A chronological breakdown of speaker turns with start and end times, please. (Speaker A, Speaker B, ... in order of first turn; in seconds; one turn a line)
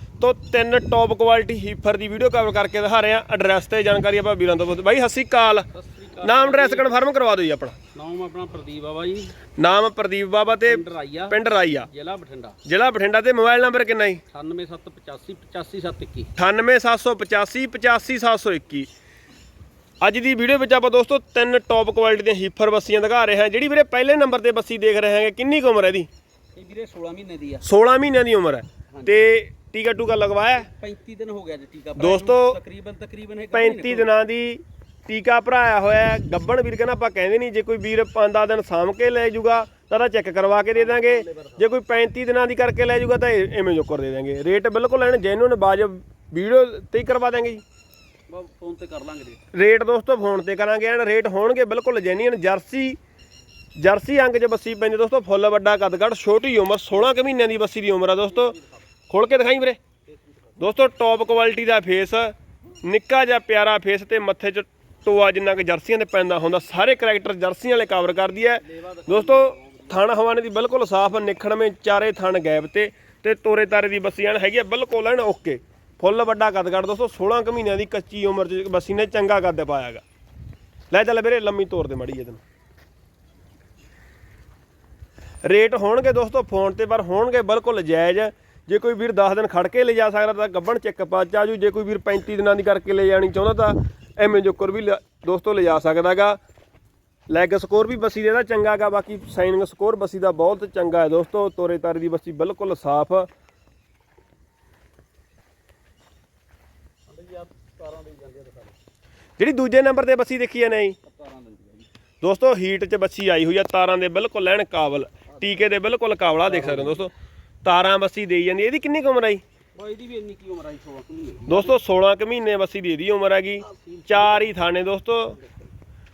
Speaker A: 0.2-5.7
Speaker B: 5.7-7.0
Speaker A: 6.2-7.8
Speaker B: 7.9-9.4
Speaker A: 9.6-11.9
Speaker B: 10.7-12.6
Speaker A: 12.7-14.2
Speaker B: 14.3-16.3
Speaker A: 16.4-18.9
Speaker A: 20.0-26.1
Speaker B: 26.6-27.6
Speaker A: 27.6-30.7
Speaker B: 28.9-29.1
Speaker B: 30.6-34.1
Speaker A: 32.0-32.6
Speaker A: 33.5-47.6
Speaker B: 40.8-41.6
Speaker B: 48.3-49.4
Speaker A: 49.5-53.0
Speaker A: 53.8-58.6
Speaker B: 58.5-58.7
Speaker A: 59.1-59.8
Speaker B: 60.1-60.5
Speaker A: 60.6-80.0
Speaker B: 68.6-70.1
Speaker A: 80.9-82.4
Speaker A: 85.4-96.4
Speaker A: 97.3-103.3
Speaker B: 107.1-108.8
Speaker A: 109.4-111.0
Speaker B: 111.0-111.9
Speaker A: 112.2-117.1
Speaker B: 115.3-115.8
Speaker B: 116.5-117.1
Speaker A: 117.6-119.4
Speaker B: 119.8-121.8
Speaker A: 121.5-125.4
Speaker B: 123.6-124.5
Speaker B: 125.4-125.7